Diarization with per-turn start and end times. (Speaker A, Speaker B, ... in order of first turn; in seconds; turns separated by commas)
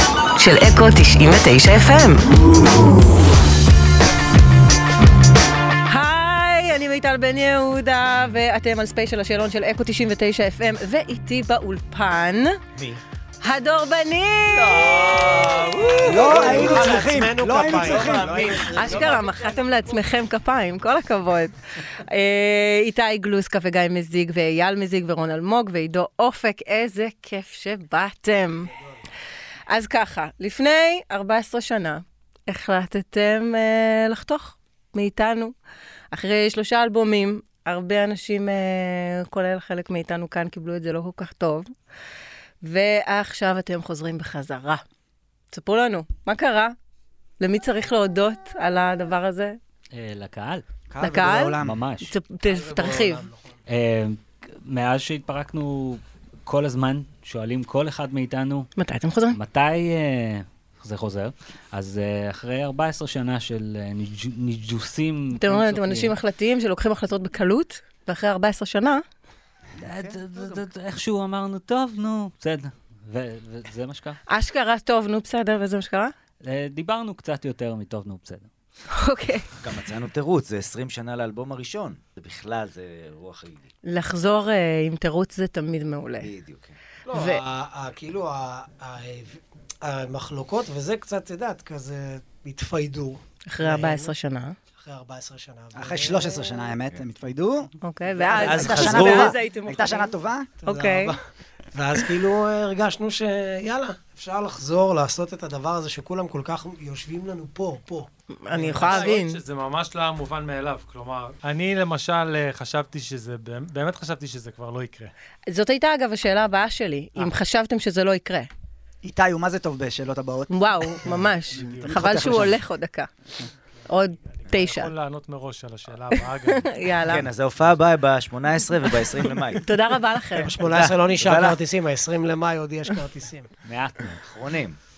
Speaker A: 0.3-2.2, Speaker A: 5.9-12.6, Speaker A: 13.4-15.4, Speaker B: 14.4-17.1, Speaker C: 16.1-18.6, Speaker D: 16.2-19.7, Speaker B: 17.6-19.2, Speaker A: 18.7-28.7, Speaker D: 28.7-29.0, Speaker A: 29.7-35.5, Speaker A: 36.1-41.7, Speaker A: 42.6-44.8, Speaker A: 45.5-46.7, Speaker A: 47.4-49.6, Speaker E: 49.9-50.6, Speaker C: 50.9-51.8, Speaker A: 51.0-53.3, Speaker E: 51.6-52.1, Speaker D: 52.5-53.6, Speaker E: 53.7-58.7, Speaker A: 58.8-59.4, Speaker E: 59.3-66.1, Speaker A: 65.3-69.0, Speaker E: 69.8-74.2, Speaker B: 69.9-70.2, Speaker A: 74.3-76.1, Speaker E: 76.4-78.5, Speaker A: 78.9-79.5, Speaker B: 79.6-83.7, Speaker A: 83.8-86.3, Speaker B: 86.2-86.8, Speaker D: 87.1-94.1, Speaker A: 87.1-87.4, Speaker A: 93.5-94.5, Speaker D: 94.8-96.7, Speaker C: 95.7-97.7, Speaker A: 97.8-100.1, Speaker D: 98.2-99.3, Speaker C: 98.3-100.5, Speaker B: 98.3-99.3, Speaker D: 100.6-101.2, Speaker A: 100.7-101.2, Speaker D: 101.7-109.2, Speaker A: 108.4-109.4, Speaker F: 108.6-115.1, Speaker A: 115.5-118.5, Speaker C: 119.0-120.5, Speaker A: 120.5-123.1, Speaker F: 121.6-122.5, Speaker C: 121.7-122.6, Speaker A: 123.9-124.9, Speaker F: 124.2-126.9, Speaker A: 126.1-127.3, Speaker B: 127.0-129.6, Speaker A: 129.5-130.5, Speaker D: 130.3-133.5, Speaker B: 130.6-131.6, Speaker E: 133.6-134.2, Speaker B: 134.2-134.8